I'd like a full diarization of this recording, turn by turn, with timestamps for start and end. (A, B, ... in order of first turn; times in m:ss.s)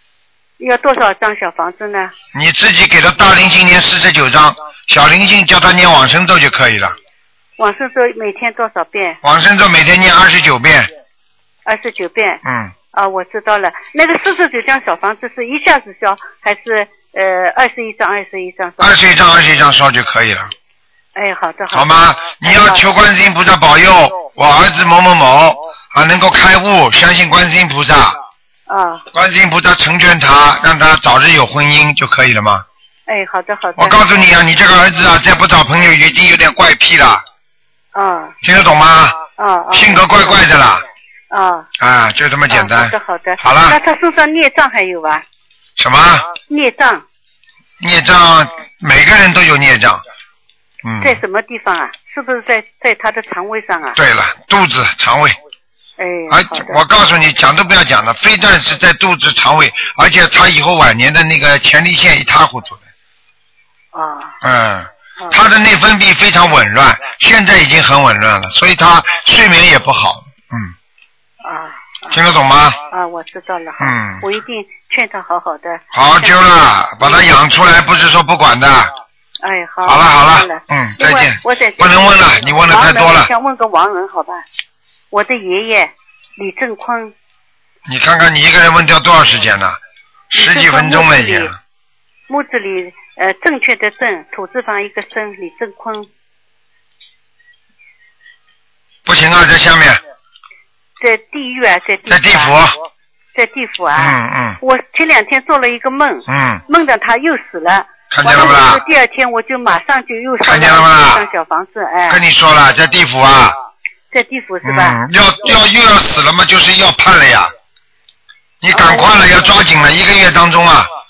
0:00.6-0:02.1 A
0:02.3-0:07.0 B
0:07.6-0:09.2 A
0:09.2-0:10.9 B
0:11.6-0:12.4 A
0:12.4-0:12.7 B
0:12.9-0:19.0 A
0:18.8-0:20.5 B
0:21.1-0:22.9 A
0:21.7-0:28.2 B
0:28.7-0:29.0 A
0:29.1-0:32.6 B
0:33.1-0:34.2 A
0:33.8-0:37.2 B
0:37.9-0:38.3 A
0:38.4-0:39.2 B
0:39.4-0:40.4 A
0:39.7-0:40.8 B
0:41.3-0:41.7 A
0:41.8-0:43.8 B
0:42.5-0:45.2 A
0:45.8-0:46.2 B
0:46.5-0:47.0 A
0:47.8-0:50.0 B
0:50.8-0:51.2 B
0:51.0-0:54.0 A
0:54.0-0:55.4 B
0:56.0-0:56.8 A
0:56.3-1:02.8 B
1:03.9-1:04.3 A
1:04.4-1:10.7 B
1:11.4-1:12.2 A
1:12.1-1:12.8 B
1:12.9-1:16.4 A
1:13.8-1:14.2 B
1:15.9-1:18.9 B
1:17.0-1:17.3 A
1:19.4-1:24.4 A
1:19.8-1:23.3 B
1:25.1-1:27.1 A
1:27.9-1:29.8 B
1:30.3-1:31.6 B
1:30.3-1:31.5 A
1:32.3-1:36.1 A
1:39.0-1:40.0 B
1:41.0-1:42.6 A
1:42.1-1:42.8 B
1:43.3-1:52.2 A
1:44.0-1:44.6 B
1:46.3-1:46.6 B
1:48.1-1:48.8 B
1:50.4-1:51.2 B
1:52.1-1:53.6 B
1:54.1-1:55.0 A
1:54.6-1:57.5 B
1:58.6-2:00.9 B
1:58.7-1:59.2 A